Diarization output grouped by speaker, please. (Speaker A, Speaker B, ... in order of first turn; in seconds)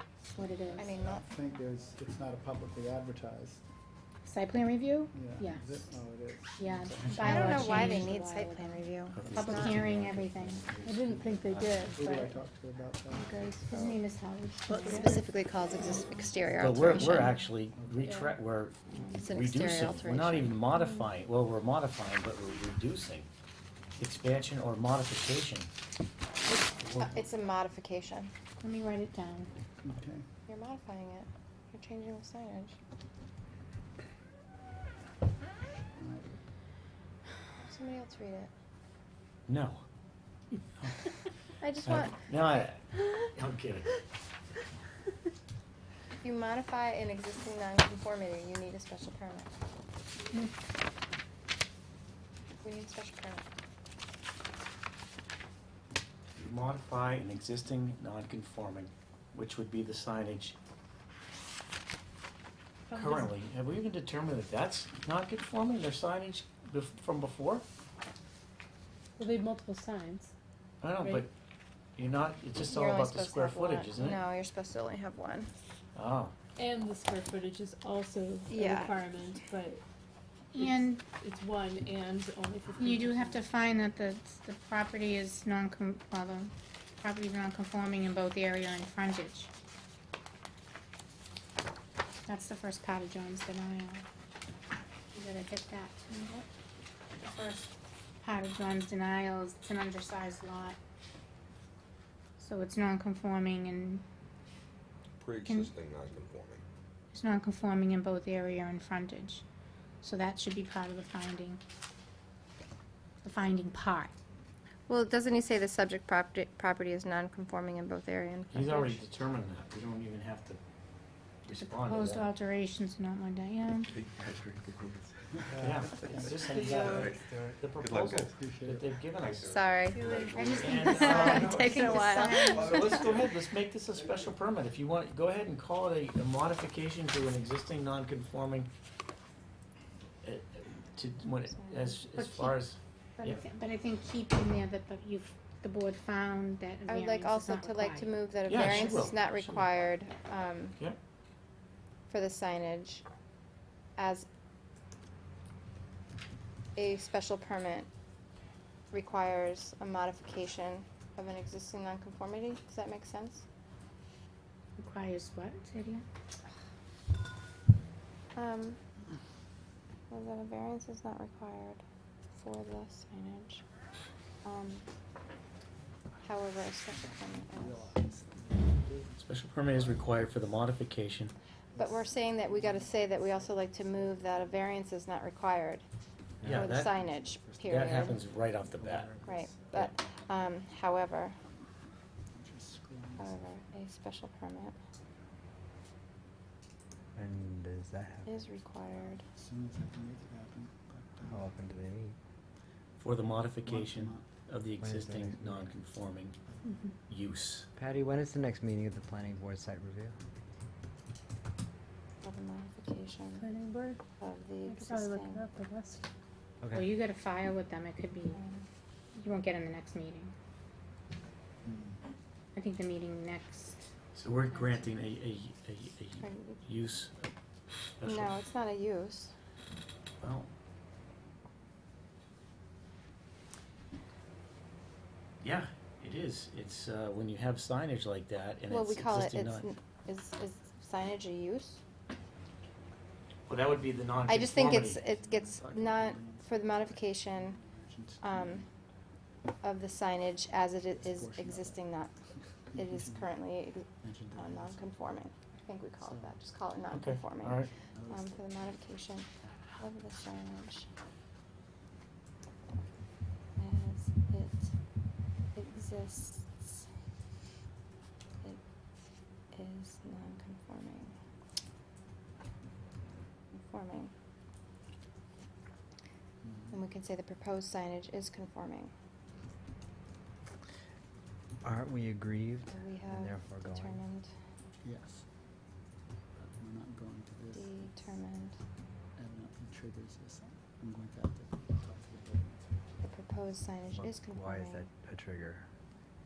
Speaker A: 0.3-0.9, 4.2-5.7, 6.6-10.7, 13.7-15.2, 28.6-29.5, 80.5-81.0, 82.8-89.5, 92.2-94.0, 95.1-96.5, 97.2-100.8, 102.4-104.0, 105.5-105.8, 107.1-109.5, 110.0-111.6, 113.2-114.1, 121.5-123.9, 130.3-132.9, 142.2-142.6, 143.2-149.0, 164.8-166.1, 216.7-218.4, 219.2-220.3, 222.6-223.8
Speaker B: 0.4-3.6, 5.1-8.2, 11.7-13.6, 17.7-18.2, 29.8-30.3, 36.0-36.3, 125.3-127.5, 128.2-129.0, 176.8-180.1, 181.8-184.9, 186.4-189.9, 192.3-193.4, 199.1-201.5, 203.6-204.3, 206.4-206.9, 221.6-222.0, 244.9-248.7, 250.9-251.8, 252.7-253.3, 253.9-255.2, 256.0-256.4, 257.7-258.6, 276.4-276.8, 284.8-285.3, 286.4-288.1, 289.2-292.8
Speaker C: 0.8-1.3, 7.2-9.8, 14.7-17.4, 19.1-20.6, 27.0-28.3, 30.5-32.8, 37.6-38.5, 41.6-42.6, 46.2-49.5, 52.6-53.5, 72.7-75.5, 78.5-79.0, 114.9-119.0, 129.4-130.2, 130.7-133.0, 141.5-142.0, 146.9-150.8, 152.1-153.1, 154.0-154.3, 156.8-157.9, 158.9-163.4, 168.4-168.8, 170.1-171.8, 172.3-173.6, 174.4-174.9, 176.2-177.9, 181.8-185.8, 186.5-188.2, 189.2-191.4, 193.2-194.8, 198.3-199.3, 212.2-213.4, 214.2-215.5, 218.3-218.7, 224.4-224.9, 226.2-226.6, 228.0-229.3, 238.7-241.8, 244.3-247.6, 248.2-248.7, 249.6-252.2, 252.8-260.9, 263.6-264.7, 265.5-266.8, 269.5-271.1, 273.5-274.1, 276.7-278.9, 282.7-284.3, 287.5-288.6, 293.0-294.9
Speaker D: 9.1-11.9, 16.6-23.3, 24.0-25.7, 26.8-27.3, 39.5-39.8, 40.8-41.1, 41.9-44.0, 56.3-60.6, 62.9-67.7, 70.8-71.3, 72.0-74.2, 76.0-76.3, 118.5-120.6, 121.5-122.3, 125.6-129.7, 130.5-138.7, 140.2-143.4, 148.5-149.8, 179.2-181.3, 186.4-187.0, 187.7-189.1, 203.0-206.4, 207.1-207.7, 224.2-227.2, 228.0-228.3, 230.2-230.5, 235.4-239.7, 243.5-245.0, 256.9-257.7
Speaker E: 10.8-12.2, 13.1-14.0, 14.7-15.2, 18.0-18.4, 20.7-21.1, 62.9-63.3, 69.2-70.3, 71.0-71.3, 76.6-79.8, 80.6-83.5, 129.9-131.6, 206.7-206.9, 213.4-214.0, 214.7-216.0
Speaker F: 105.2-106.6, 123.9-125.1, 126.8-128.3, 129.2-130.7, 132.4-133.3
Speaker G: 197.2-198.4, 201.3-202.2, 204.8-205.8, 207.8-210.2, 216.6-216.9, 281.6-284.0, 293.9-295.7